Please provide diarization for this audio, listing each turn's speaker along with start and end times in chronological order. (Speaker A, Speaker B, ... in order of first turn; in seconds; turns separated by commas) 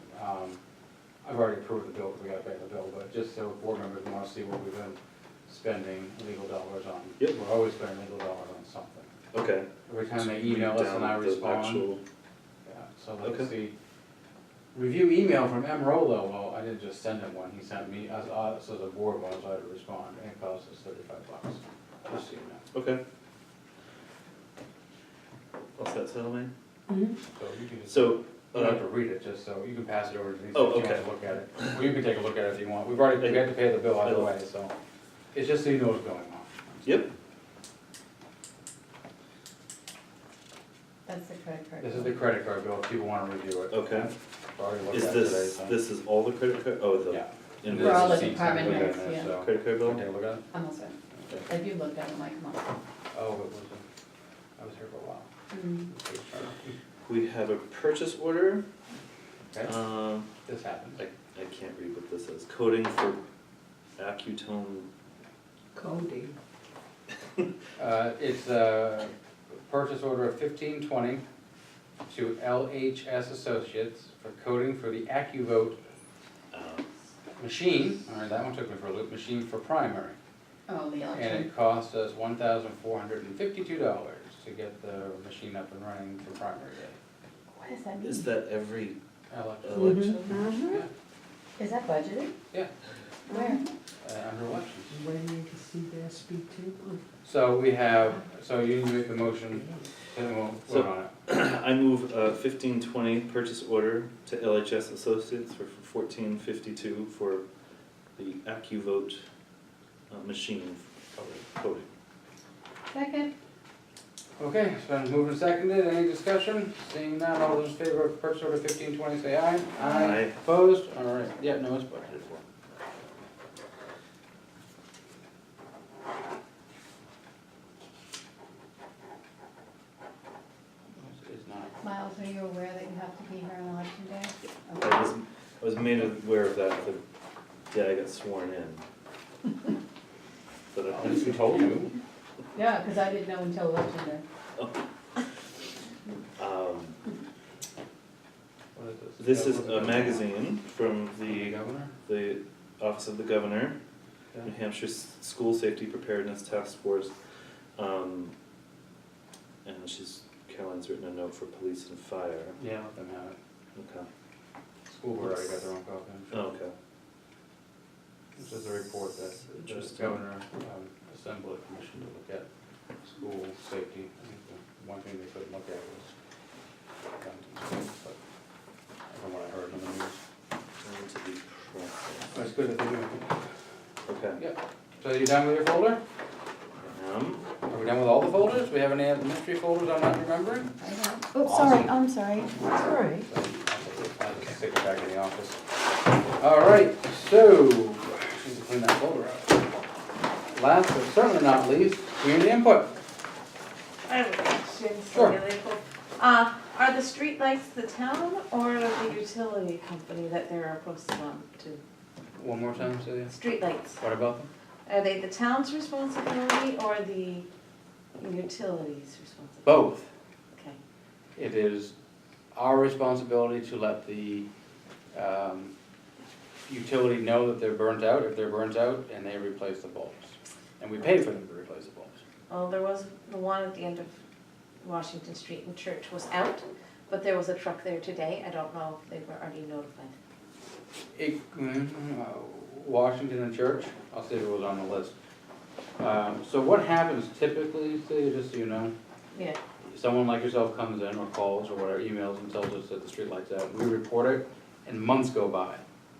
Speaker A: 0.1-0.6, Speaker A: 1.2-9.1, Speaker B: 9.3-12.0, Speaker A: 9.9-11.9, Speaker A: 12.7-13.7, Speaker B: 13.2-13.5, Speaker A: 14.7-22.6, Speaker B: 22.7-23.0, Speaker B: 25.8-26.5, Speaker A: 27.4-34.7, Speaker B: 27.9-28.9, Speaker B: 30.5-31.1, Speaker B: 33.2-34.3, Speaker A: 35.3-37.0, Speaker B: 36.8-37.1, Speaker C: 41.1-42.2, Speaker A: 41.8-45.8, Speaker B: 43.7-44.1, Speaker B: 44.9-50.0, Speaker A: 47.1-50.5, Speaker C: 47.7-49.3, Speaker C: 50.5-52.8, Speaker A: 51.1-51.5, Speaker A: 53.1-53.9, Speaker A: 54.6-55.3, Speaker C: 55.5-55.9, Speaker A: 55.9-56.8, Speaker B: 57.1-58.6, Speaker A: 59.5-59.8, Speaker B: 59.6-60.3, Speaker A: 60.3-61.0, Speaker B: 61.0-63.2, Speaker B: 64.0-64.9, Speaker D: 65.8-66.3, Speaker A: 67.8-69.1, Speaker A: 69.7-71.2, Speaker A: 72.1-75.8, Speaker B: 76.5-76.9, Speaker A: 77.4-80.2, Speaker C: 80.7-81.5, Speaker A: 81.1-87.0, Speaker C: 87.6-88.2, Speaker B: 88.0-89.0, Speaker A: 89.3-90.9, Speaker B: 89.6-90.4, Speaker D: 89.8-90.2, Speaker E: 90.2-90.7, Speaker C: 91.6-92.3, Speaker C: 93.3-93.6, Speaker E: 93.3-93.6, Speaker A: 94.0-95.0, Speaker D: 94.9-97.0, Speaker A: 97.2-101.1, Speaker B: 100.7-107.5, Speaker B: 108.2-109.2, Speaker B: 110.1-110.9, Speaker A: 111.2-111.4, Speaker B: 111.4-111.9, Speaker E: 112.9-113.3, Speaker A: 114.4-122.4, Speaker B: 119.8-120.3, Speaker A: 131.0-131.7, Speaker C: 131.8-135.0, Speaker B: 134.8-137.0, Speaker B: 137.7-138.8, Speaker B: 140.7-141.8, Speaker A: 140.9-141.9, Speaker C: 142.5-144.2, Speaker B: 146.4-147.0, Speaker A: 148.8-150.4, Speaker B: 149.2-153.8, Speaker A: 151.2-151.9, Speaker B: 154.4-157.1, Speaker B: 157.8-158.3, Speaker B: 159.7-162.6, Speaker A: 162.6-163.4, Speaker B: 163.8-164.1, Speaker A: 164.9-166.4, Speaker B: 166.3-166.7, Speaker A: 168.4-172.5, Speaker B: 169.5-170.2, Speaker A: 173.0-176.1, Speaker A: 177.2-178.2, Speaker A: 179.1-180.2, Speaker B: 180.8-182.4, Speaker A: 182.3-183.4, Speaker B: 184.1-184.4, Speaker A: 184.4-186.0, Speaker B: 186.8-187.4, Speaker A: 187.7-190.7, Speaker E: 190.8-193.2, Speaker A: 191.4-191.9, Speaker A: 193.2-195.6, Speaker A: 196.4-199.6, Speaker A: 200.5-203.0, Speaker E: 204.1-211.8, Speaker A: 205.1-205.4, Speaker A: 212.4-214.5, Speaker E: 213.3-214.0, Speaker E: 214.9-217.5, Speaker E: 218.2-219.8, Speaker A: 219.7-220.1, Speaker A: 221.4-221.9, Speaker A: 222.5-224.5, Speaker A: 225.1-225.7, Speaker A: 226.7-232.2, Speaker E: 232.5-234.1, Speaker E: 234.8-240.1, Speaker A: 241.2-245.1, Speaker A: 246.0-248.9, Speaker A: 249.9-255.8